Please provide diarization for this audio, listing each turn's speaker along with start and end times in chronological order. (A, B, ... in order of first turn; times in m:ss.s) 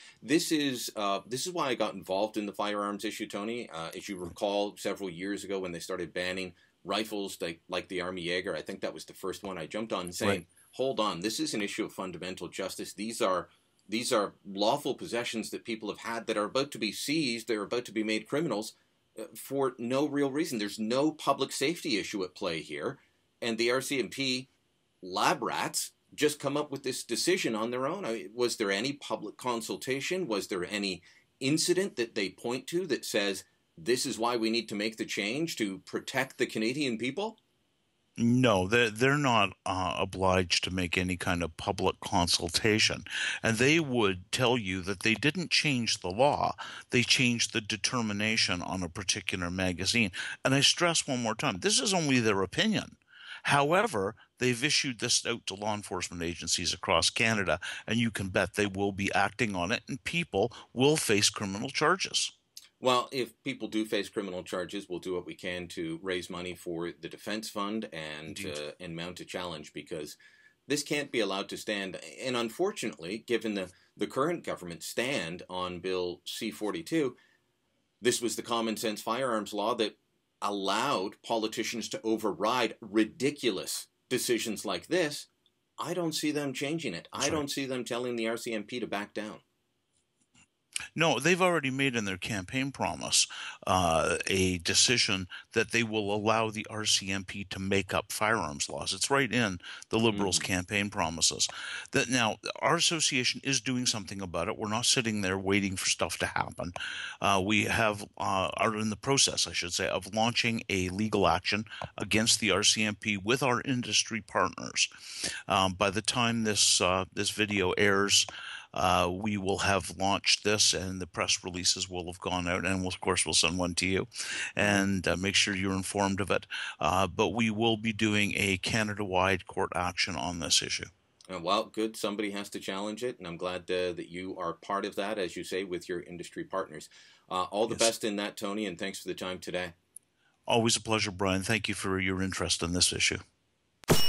0:00.2-0:24.5 A
0:25.0-0:37.4 A
0:38.2-1:02.3 B
1:02.8-1:17.2 A
1:08.3-1:08.6 B
1:18.0-1:29.4 A
1:27.2-1:27.4 B
1:31.0-1:54.9 B
1:40.1-1:40.5 A
1:55.5-2:10.9 B
2:04.6-2:04.9 A
2:11.3-2:19.7 A
2:20.5-2:23.2 B